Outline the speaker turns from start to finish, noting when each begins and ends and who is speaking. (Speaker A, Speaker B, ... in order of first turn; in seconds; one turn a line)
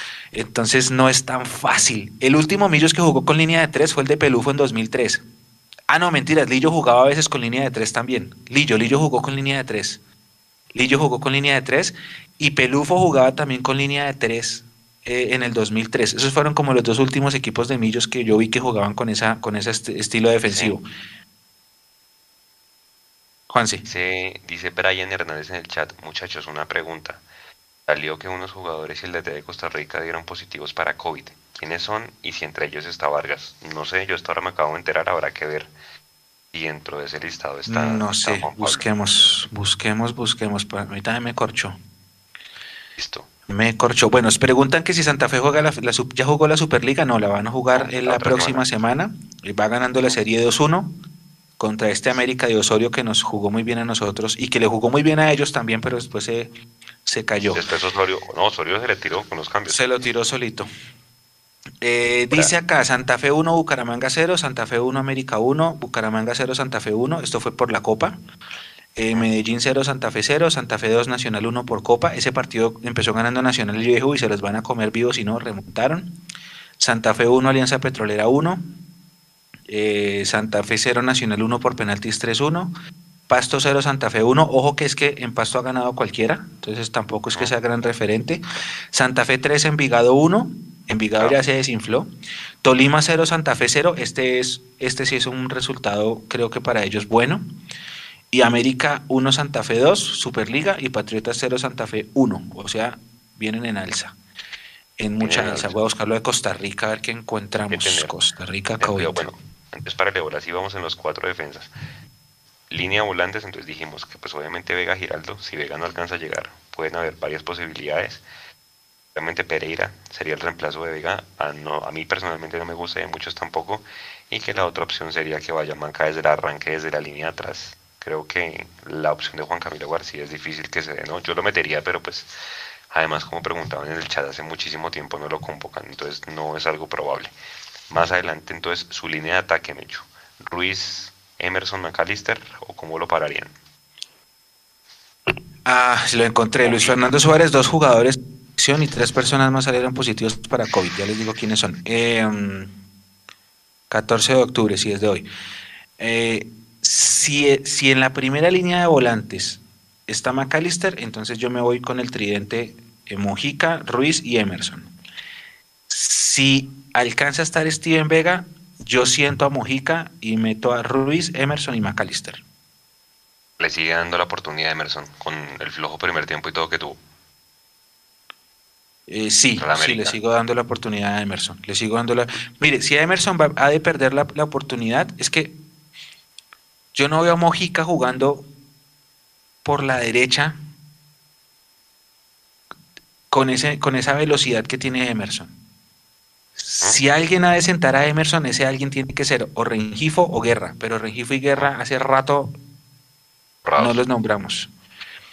Speaker A: 0.3-5.2
Speaker A: 5.9-10.0
Speaker A: 10.7-20.9
Speaker B: 20.4-20.8
Speaker A: 23.5-23.9
Speaker B: 23.9-27.2
Speaker B: 27.9-35.7
Speaker B: 36.5-38.9
Speaker A: 37.7-41.8
Speaker B: 43.0-43.3
Speaker A: 43.5-51.0
Speaker B: 47.8-48.6
Speaker A: 51.6-56.5
Speaker A: 57.0-57.6
Speaker B: 57.5-59.8
Speaker A: 59.7-60.7
Speaker A: 61.8-68.2
Speaker A: 69.0-76.1
Speaker A: 76.8-78.7
Speaker A: 79.7-82.7
Speaker A: 83.3-88.4
Speaker A: 88.9-92.1
Speaker A: 92.6-97.5
Speaker A: 98.3-104.2
Speaker A: 105.0-109.2
Speaker B: 105.2-105.8
Speaker B: 107.7-108.2
Speaker B: 108.8-111.7
Speaker B: 112.7-118.2
Speaker B: 119.2-132.3
Speaker B: 132.9-137.3
Speaker B: 137.9-143.5
Speaker A: 145.7-152.7
Speaker B: 146.6-147.1
Speaker A: 153.9-155.3
Speaker A: 156.0-164.9
Speaker A: 165.9-172.4
Speaker B: 173.6-177.0
Speaker A: 179.1-185.6
Speaker B: 179.6-180.2
Speaker A: 186.9-188.5
Speaker A: 189.7-190.6
Speaker A: 193.3-195.5
Speaker A: 196.6-202.5
Speaker B: 203.7-204.0
Speaker A: 203.8-204.7